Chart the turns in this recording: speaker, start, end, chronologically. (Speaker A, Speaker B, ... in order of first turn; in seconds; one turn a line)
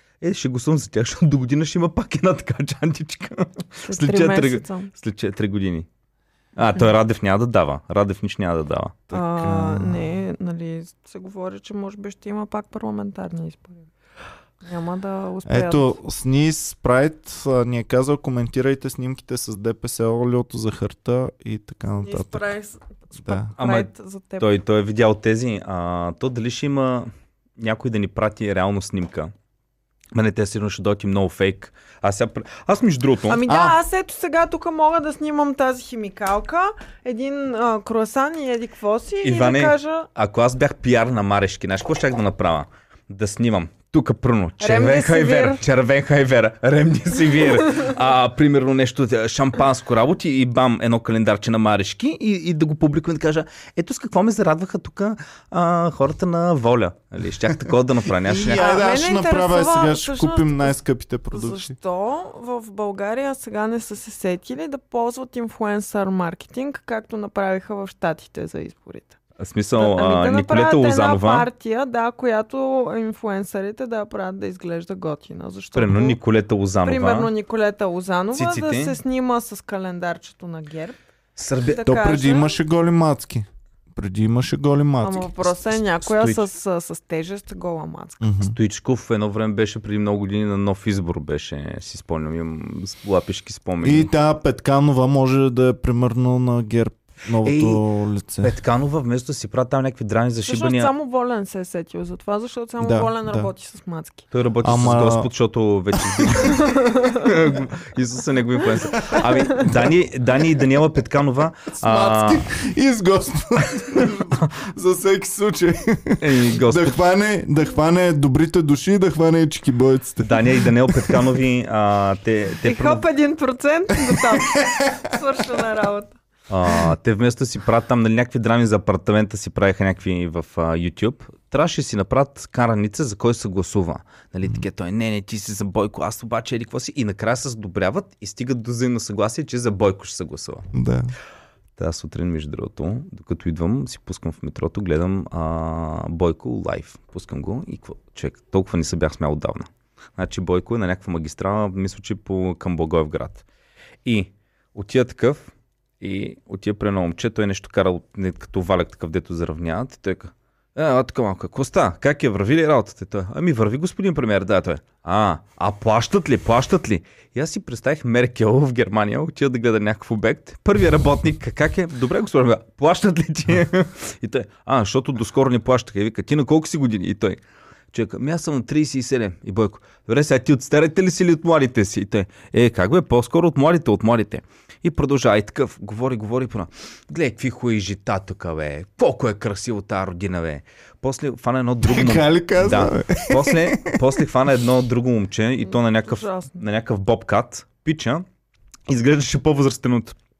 Speaker A: 0.2-5.9
Speaker B: 3.9-4.9
Speaker A: 6.6-9.0
Speaker C: 9.1-10.1
Speaker B: 9.1-13.9
Speaker B: 14.6-15.9
Speaker C: 15.5-22.5
Speaker B: 22.0-24.5
Speaker C: 23.2-23.5
Speaker A: 23.6-29.3
Speaker A: 30.1-33.4
Speaker B: 33.3-40.1
Speaker C: 33.5-33.8
Speaker A: 39.2-58.8
Speaker B: 44.6-45.6
Speaker C: 58.2-61.8
Speaker B: 58.5-60.8
Speaker B: 61.3-69.2
Speaker A: 69.4-71.5
Speaker B: 69.8-76.2
Speaker A: 75.7-77.3
Speaker B: 76.8-81.0
Speaker A: 78.3-79.0
Speaker A: 81.4-81.8
Speaker B: 81.6-82.6
Speaker C: 81.8-85.8
Speaker B: 85.0-88.3
Speaker A: 86.0-86.4
Speaker C: 88.2-88.6
Speaker A: 88.5-94.1
Speaker C: 93.8-98.5
Speaker A: 97.4-97.8
Speaker A: 98.4-100.9
Speaker B: 100.5-104.2
Speaker C: 102.8-103.5
Speaker A: 104.3-112.5
Speaker C: 104.6-105.3
Speaker B: 106.5-107.3
Speaker C: 111.8-121.2
Speaker A: 116.2-117.0
Speaker A: 120.2-123.0
Speaker B: 122.6-126.2
Speaker C: 124.2-125.0
Speaker A: 126.5-140.7
Speaker C: 140.7-141.1
Speaker A: 141.8-153.4
Speaker A: 154.1-155.5
Speaker A: 156.0-177.4
Speaker A: 177.9-198.2
Speaker C: 191.8-194.1
Speaker B: 195.7-196.6
Speaker A: 198.9-200.2